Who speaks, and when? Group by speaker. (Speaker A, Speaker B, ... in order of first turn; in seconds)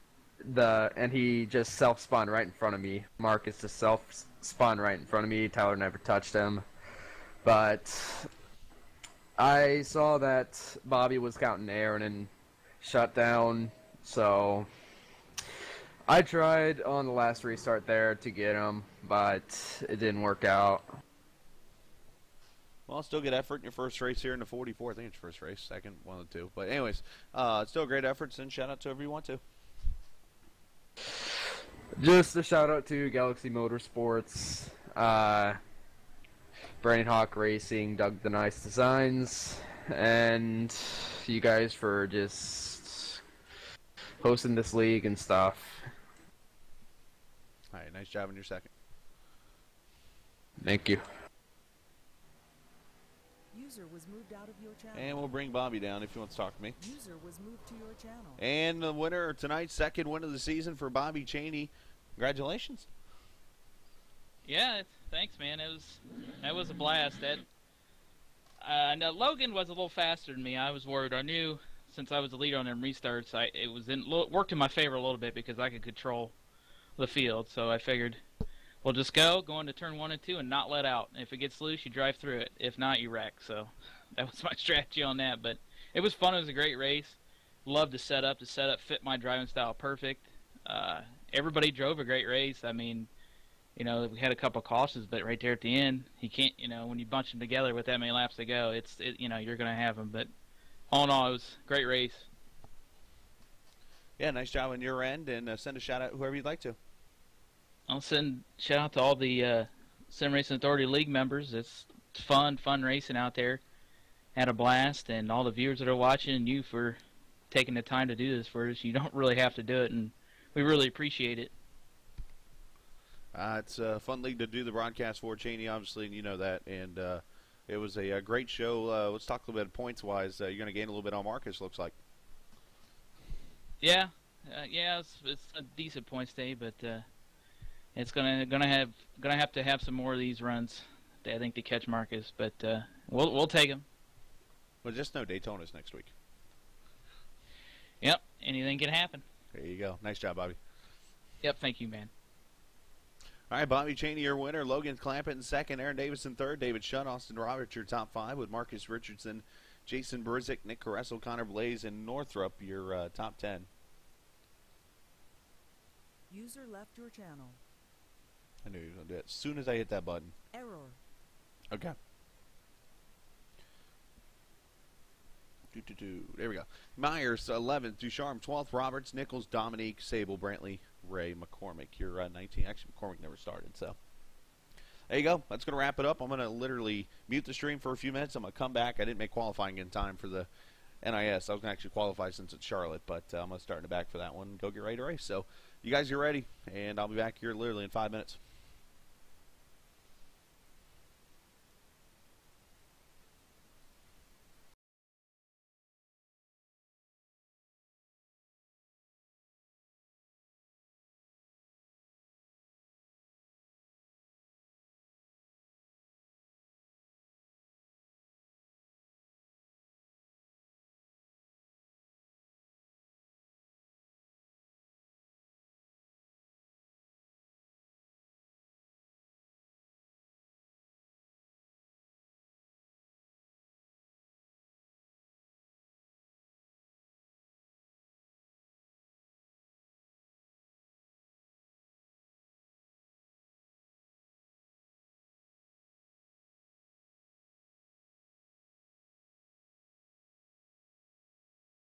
Speaker A: 0.5-6.6, 7.4-8.3, 9.4-14.7, 16.1-20.9, 32.0-35.6, 36.8-43.2, 44.2-45.8, 50.6-51.0
Speaker B: 22.9-29.4, 47.7-48.7, 54.9-56.8, 58.4-62.9, 104.2-106.8, 123.3-131.9, 144.8-146.1, 149.5-150.6, 153.5-163.7, 168.7-170.3, 171.7-172.0, 175.7-184.0, 185.1-190.5, 191.0-198.4
Speaker C: 53.5-55.4, 56.8-58.4, 166.3-167.6, 170.5-171.0
Speaker D: 64.5-67.5, 68.6-76.3, 77.0-78.2, 78.8-93.1, 93.8-100.3, 100.9-102.3, 107.9-113.6, 114.3-117.0, 117.5-121.5, 133.8-137.1, 137.9-143.9, 148.0-149.2, 151.4-152.1